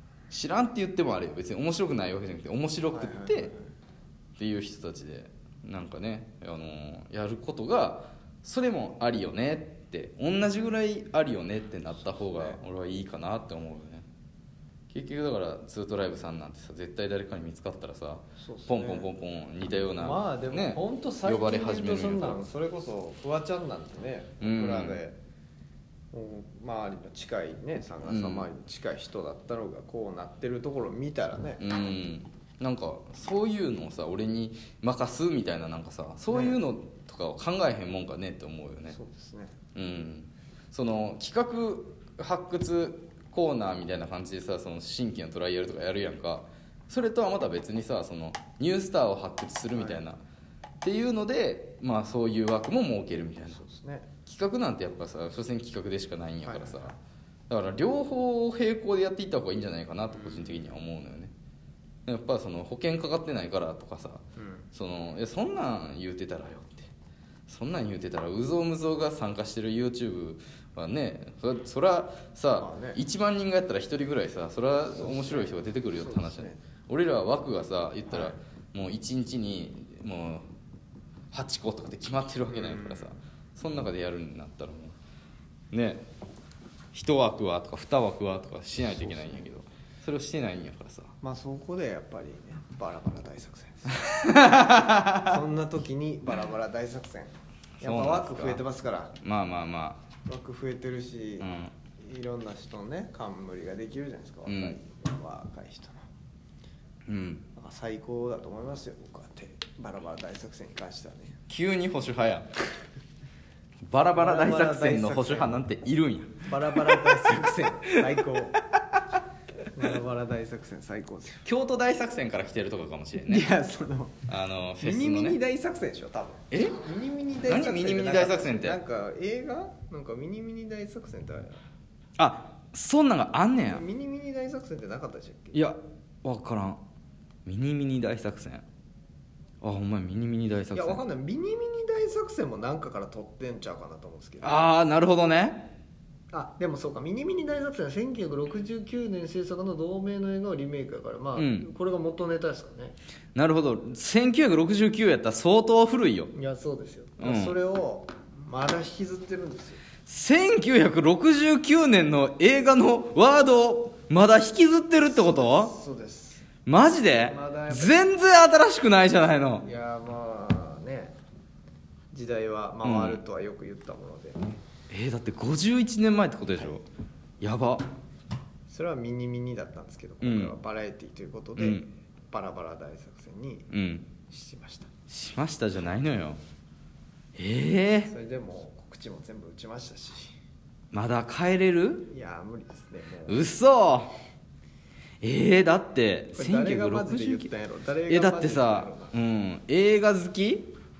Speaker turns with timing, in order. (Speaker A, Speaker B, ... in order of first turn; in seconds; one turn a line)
Speaker A: 0.3-3.5
Speaker B: 2.9-3.7
Speaker A: 4.4-14.0
Speaker B: 11.9-12.6
Speaker A: 14.9-22.4
Speaker B: 18.4-19.1
Speaker B: 20.0-25.1
Speaker A: 24.4-25.0
Speaker B: 26.1-31.6
Speaker A: 28.0-28.5
Speaker A: 31.6-39.0
Speaker B: 36.3-36.6
Speaker B: 38.9-39.5
Speaker A: 39.7-50.2
Speaker B: 49.7-50.0
Speaker A: 50.8-53.6
Speaker B: 53.5-54.1
Speaker A: 54.2-56.9
Speaker B: 56.4-56.9
Speaker A: 57.5-61.3
Speaker B: 60.1-60.8
Speaker A: 62.0-66.9
Speaker B: 64.4-64.7
Speaker A: 67.5-80.5
Speaker B: 72.5-73.0
Speaker B: 75.0-76.6
Speaker B: 78.1-78.4
Speaker A: 81.3-84.9
Speaker B: 82.5-83.2
Speaker A: 85.7-86.0
Speaker A: 86.9-91.1
Speaker B: 89.0-89.4
Speaker B: 91.2-99.1
Speaker A: 93.9-95.3
Speaker A: 97.8-98.6
Speaker A: 99.2-100.0
Speaker B: 100.2-106.0
Speaker A: 101.4-101.7
Speaker A: 104.5-104.8
Speaker A: 107.1-107.4
Speaker B: 107.5-111.4
Speaker A: 111.5-112.5
Speaker A: 113.9-117.1
Speaker B: 114.1-115.7
Speaker B: 116.5-118.6
Speaker A: 117.9-118.2
Speaker B: 119.7-121.4
Speaker A: 121.4-123.5
Speaker B: 123.2-124.1
Speaker A: 124.3-125.4
Speaker B: 124.8-131.6
Speaker A: 126.5-126.8
Speaker A: 127.4-128.8
Speaker A: 132.2-133.8
Speaker B: 133.7-135.6
Speaker A: 135.5-136.8
Speaker A: 137.4-138.6
Speaker A: 139.6-141.0
Speaker B: 140.7-144.6
Speaker A: 144.4-145.7
Speaker B: 146.3-153.0
Speaker A: 151.3-151.7
Speaker A: 153.3-156.3
Speaker B: 156.3-159.8
Speaker A: 157.2-157.5
Speaker A: 160.1-165.7
Speaker B: 165.0-166.4
Speaker A: 166.7-169.6
Speaker B: 167.2-168.1
Speaker B: 169.6-171.2
Speaker B: 172.1-174.5
Speaker A: 172.8-173.2
Speaker A: 174.9-176.8
Speaker A: 177.4-177.8
Speaker B: 178.7-183.7
Speaker A: 180.2-180.5
Speaker A: 181.6-181.8
Speaker A: 183.7-184.1
Speaker B: 184.3-184.9
Speaker A: 185.1-186.4
Speaker A: 187.3-188.1
Speaker B: 188.1-190.3
Speaker A: 190.9-192.1
Speaker B: 192.1-193.4
Speaker A: 193.3-194.1
Speaker A: 195.2-197.5
Speaker B: 196.3-199.2
Speaker A: 198.1-200.7